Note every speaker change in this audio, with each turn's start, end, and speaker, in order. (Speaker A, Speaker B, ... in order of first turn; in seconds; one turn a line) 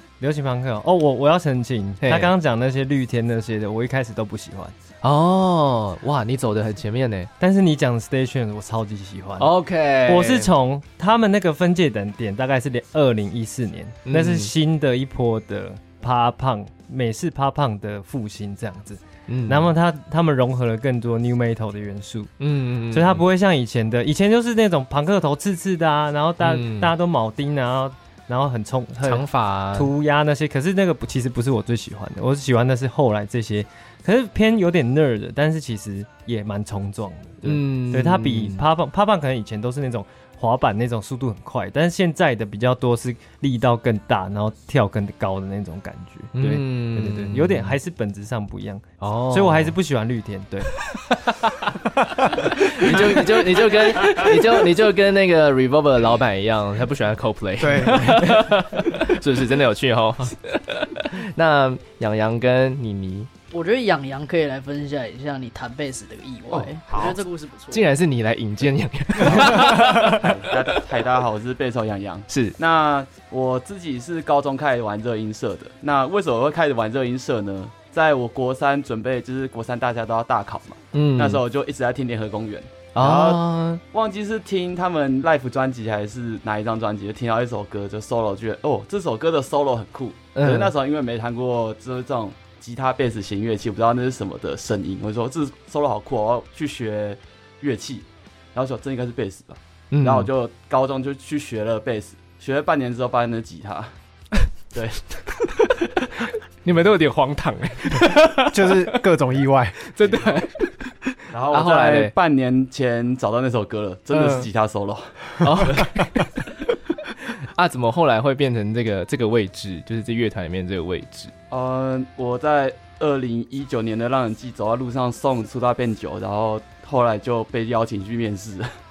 Speaker A: 0.2-4.7
Speaker B: 2.0-2.3
Speaker B: 5.0-7.3
Speaker A: 7.4-9.5
Speaker B: 9.4-10.5
Speaker A: 10.1-22.3
Speaker B: 14.1-14.5
Speaker B: 19.3-19.7
Speaker B: 22.4-23.2
Speaker A: 22.9-50.7
Speaker B: 26.4-26.9
Speaker B: 29.0-29.9
Speaker B: 37.4-38.6
Speaker B: 46.3-47.8
Speaker B: 49.0-49.7
Speaker B: 50.9-63.3
Speaker C: 57.6-58.4
Speaker D: 63.5-67.9
Speaker E: 66.5-67.2
Speaker B: 67.7-70.4
Speaker E: 69.2-103.9
Speaker B: 72.3-72.6
Speaker B: 80.9-81.4
Speaker B: 82.9-83.8
Speaker B: 90.3-90.7
Speaker B: 99.9-100.3
Speaker E: 104.7-105.1
Speaker B: 105.6-109.0
Speaker C: 108.5-109.8
Speaker B: 109.8-112.1
Speaker E: 110.0-110.4
Speaker E: 111.3-115.9
Speaker B: 114.1-114.5
Speaker B: 115.4-116.5
Speaker B: 117.2-121.3
Speaker E: 121.5-128.7